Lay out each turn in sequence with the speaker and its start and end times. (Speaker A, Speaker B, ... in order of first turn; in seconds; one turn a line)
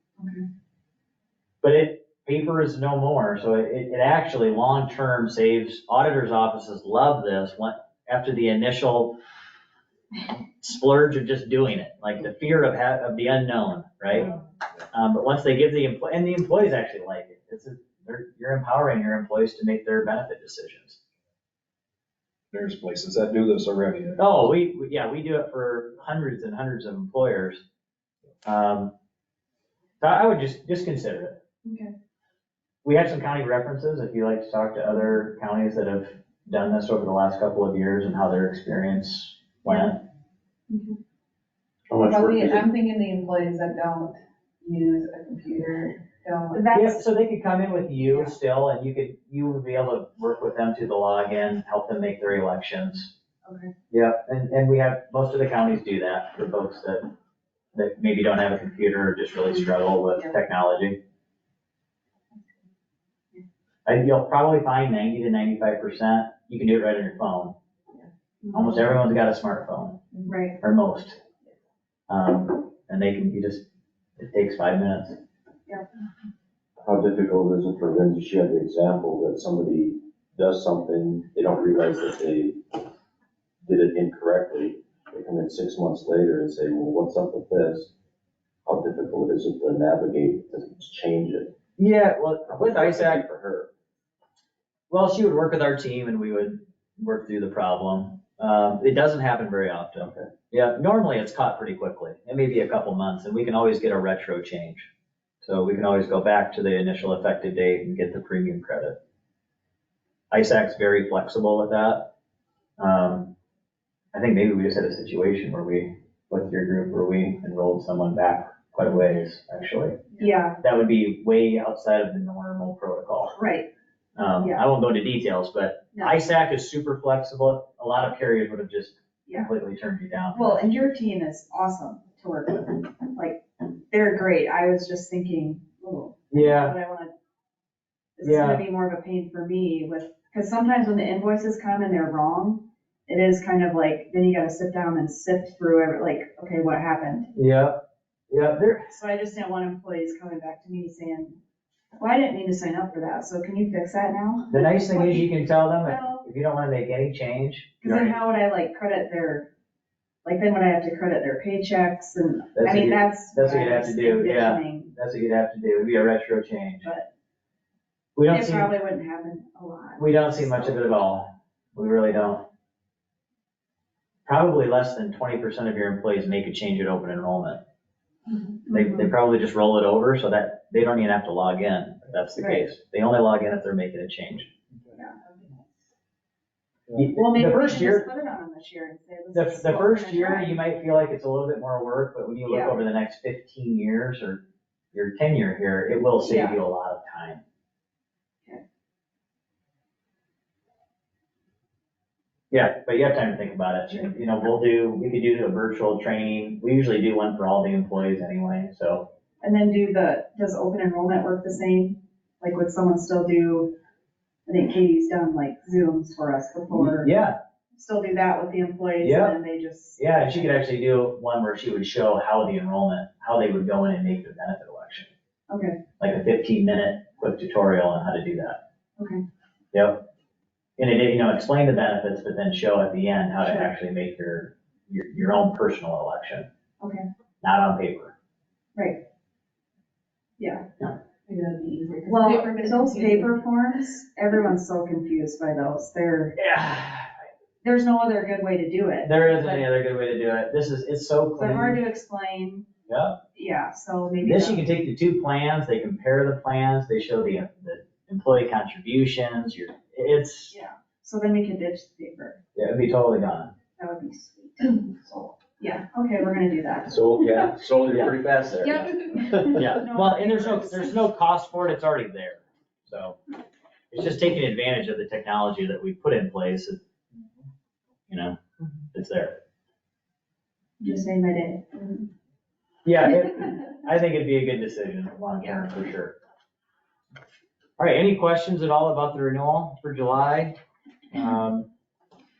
Speaker A: 1.6-9.2
Speaker A: 10.6-14.3
Speaker A: 14.9-21.0
Speaker B: 22.5-24.5
Speaker A: 24.2-27.6
Speaker A: 28.4-28.9
Speaker A: 30.0-31.4
Speaker C: 31.6-31.9
Speaker A: 32.8-40.0
Speaker C: 39.6-39.9
Speaker C: 40.7-41.0
Speaker D: 41.9-42.6
Speaker E: 42.0-46.6
Speaker C: 46.5-47.0
Speaker A: 46.7-53.1
Speaker C: 48.0-48.3
Speaker C: 53.4-53.7
Speaker A: 53.9-57.1
Speaker A: 57.7-61.0
Speaker A: 63.9-67.5
Speaker C: 68.4-68.8
Speaker A: 68.5-70.0
Speaker C: 70.2-70.6
Speaker A: 70.6-71.2
Speaker A: 72.1-73.7
Speaker A: 74.2-75.2
Speaker D: 76.8-82.8
Speaker D: 83.6-87.9
Speaker D: 88.7-91.5
Speaker A: 91.8-93.2
Speaker D: 92.5-93.7
Speaker A: 94.9-104.9
Speaker D: 100.0-100.3
Speaker A: 105.4-109.0
Speaker A: 110.3-112.1
Speaker A: 112.8-113.3
Speaker A: 114.1-123.4
Speaker C: 120.2-120.6
Speaker C: 123.3-123.7
Speaker A: 124.2-130.7
Speaker C: 130.3-137.1
Speaker A: 136.3-136.7
Speaker C: 138.2-147.3
Speaker A: 138.2-138.6
Speaker A: 147.3-148.9
Speaker C: 148.9-151.4
Speaker C: 152.0-156.2
Speaker A: 154.5-158.1
Speaker C: 157.8-159.5
Speaker C: 160.2-164.9
Speaker A: 162.5-166.9
Speaker C: 166.8-167.1
Speaker A: 168.1-168.7
Speaker C: 168.3-170.8
Speaker A: 170.0-172.5
Speaker A: 174.2-177.6
Speaker C: 178.7-179.1
Speaker A: 178.7-184.5
Speaker C: 182.3-182.7
Speaker E: 185.2-185.7
Speaker A: 186.9-188.1
Speaker C: 187.1-190.8
Speaker A: 189.3-197.4
Speaker C: 192.4-192.8
Speaker C: 196.1-196.6
Speaker A: 202.5-209.1
Speaker C: 209.4-213.7
Speaker C: 214.5-217.1
Speaker A: 216.7-217.3
Speaker C: 217.7-220.4
Speaker A: 219.0-219.4
Speaker A: 220.0-225.1
Speaker C: 225.5-225.8
Speaker A: 226.0-228.6
Speaker C: 229.0-229.2
Speaker A: 229.7-230.0
Speaker A: 230.8-236.5
Speaker C: 233.4-233.7
Speaker C: 236.8-237.1
Speaker A: 237.4-238.1
Speaker C: 238.7-239.0
Speaker C: 240.4-240.7
Speaker E: 241.2-243.3
Speaker C: 242.1-246.3
Speaker A: 246.4-247.1
Speaker C: 247.6-249.6
Speaker A: 249.0-251.8
Speaker C: 251.4-252.7
Speaker A: 252.9-253.2
Speaker C: 253.3-254.6
Speaker A: 254.2-260.5
Speaker C: 260.5-262.4
Speaker A: 262.5-263.5
Speaker C: 263.8-267.2
Speaker D: 266.9-269.8
Speaker A: 267.9-268.1
Speaker C: 268.6-271.0
Speaker A: 269.5-273.2
Speaker A: 273.9-276.8
Speaker A: 278.1-278.4
Speaker A: 278.9-279.4
Speaker C: 280.8-282.1
Speaker A: 282.8-286.1
Speaker A: 287.8-290.6
Speaker A: 291.1-291.6